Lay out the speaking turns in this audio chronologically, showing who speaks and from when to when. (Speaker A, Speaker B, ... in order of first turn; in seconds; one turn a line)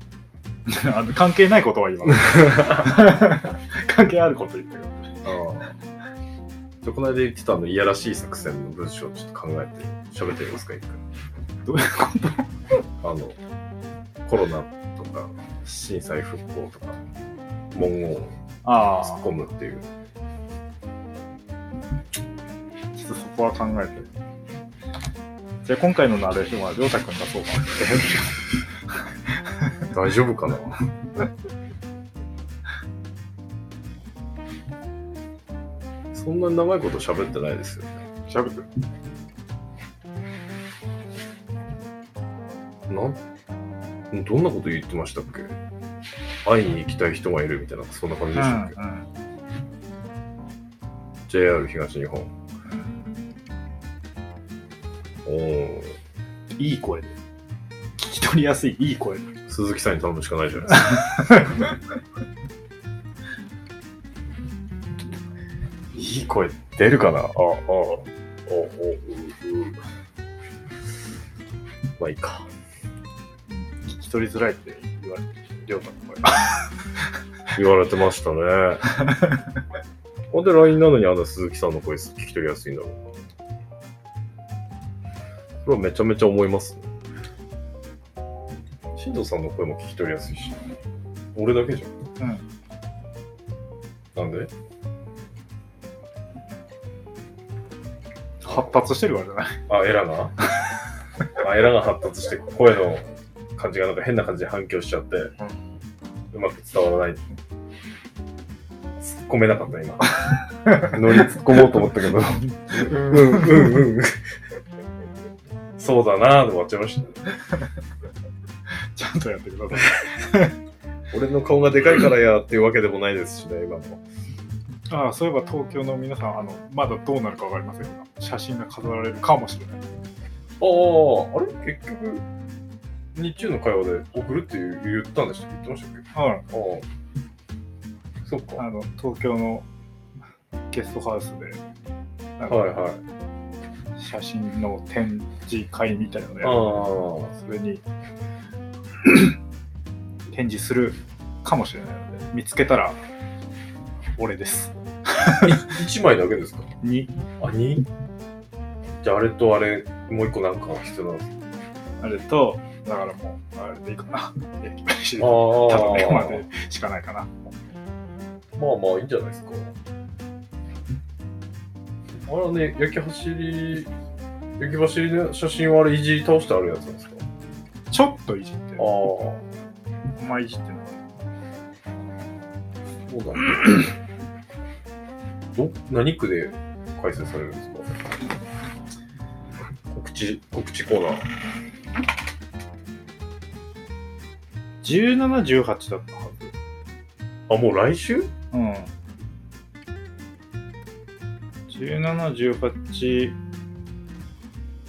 Speaker A: 0.7-5.1
Speaker B: 2.3-2.9
Speaker B: 5.2-5.7
Speaker B: 6.8-11.0
Speaker A: 11.7-12.5
Speaker B: 13.0-13.4
Speaker B: 14.2-17.0
Speaker B: 17.7-18.3
Speaker A: 18.6-19.2
Speaker B: 18.9-19.8
Speaker A: 22.9-24.1
Speaker A: 25.6-28.5
Speaker B: 29.9-30.8
Speaker B: 36.1-38.0
Speaker A: 38.3-38.7
Speaker B: 42.9-43.2
Speaker B: 44.1-45.5
Speaker B: 46.4-48.8
Speaker A: 48.3-49.1
Speaker B: 51.3-52.3
Speaker A: 52.7-53.0
Speaker B: 55.2-56.0
Speaker A: 56.6-57.1
Speaker A: 58.0-59.3
Speaker B: 59.5-61.3
Speaker A: 60.7-61.8
Speaker B: 65.9-69.8
Speaker B: 72.0-72.5
Speaker A: 73.5-76.6
Speaker B: 77.5-78.8
Speaker B: 80.3-83.0
Speaker B: 85.6-86.9
Speaker B: 88.9-90.6
Speaker B: 91.3-91.9
Speaker A: 92.2-92.4
Speaker B: 94.1-94.5
Speaker A: 98.4-99.6
Speaker B: 99.7-100.3
Speaker B: 101.3-105.3
Speaker B: 106.3-107.2
Speaker B: 109.0-114.2
Speaker A: 112.5-113.7
Speaker B: 115.8-117.3
Speaker A: 118.9-120.5
Speaker B: 121.1-124.0
Speaker A: 124.9-129.8
Speaker B: 130.6-132.2
Speaker B: 133.1-136.9
Speaker A: 136.1-136.4
Speaker B: 138.2-138.6
Speaker A: 138.6-139.7
Speaker A: 140.7-141.6
Speaker A: 142.4-142.7
Speaker B: 142.5-143.0
Speaker A: 144.0-147.8
Speaker B: 146.4-147.3
Speaker A: 149.0-149.3
Speaker A: 150.3-153.0
Speaker A: 154.2-155.8
Speaker B: 155.3-156.7
Speaker A: 156.8-157.1
Speaker B: 157.4-157.9
Speaker B: 159.0-161.3
Speaker A: 162.0-167.3
Speaker B: 165.2-166.4
Speaker B: 168.6-169.7
Speaker B: 172.2-173.9
Speaker B: 174.6-177.2
Speaker A: 177.9-178.9
Speaker B: 178.8-179.4
Speaker A: 180.2-181.0
Speaker B: 183.1-183.9
Speaker B: 185.5-188.0
Speaker B: 189.9-191.3
Speaker A: 194.8-196.5
Speaker B: 197.5-198.3
Speaker A: 198.5-198.9
Speaker A: 201.7-203.4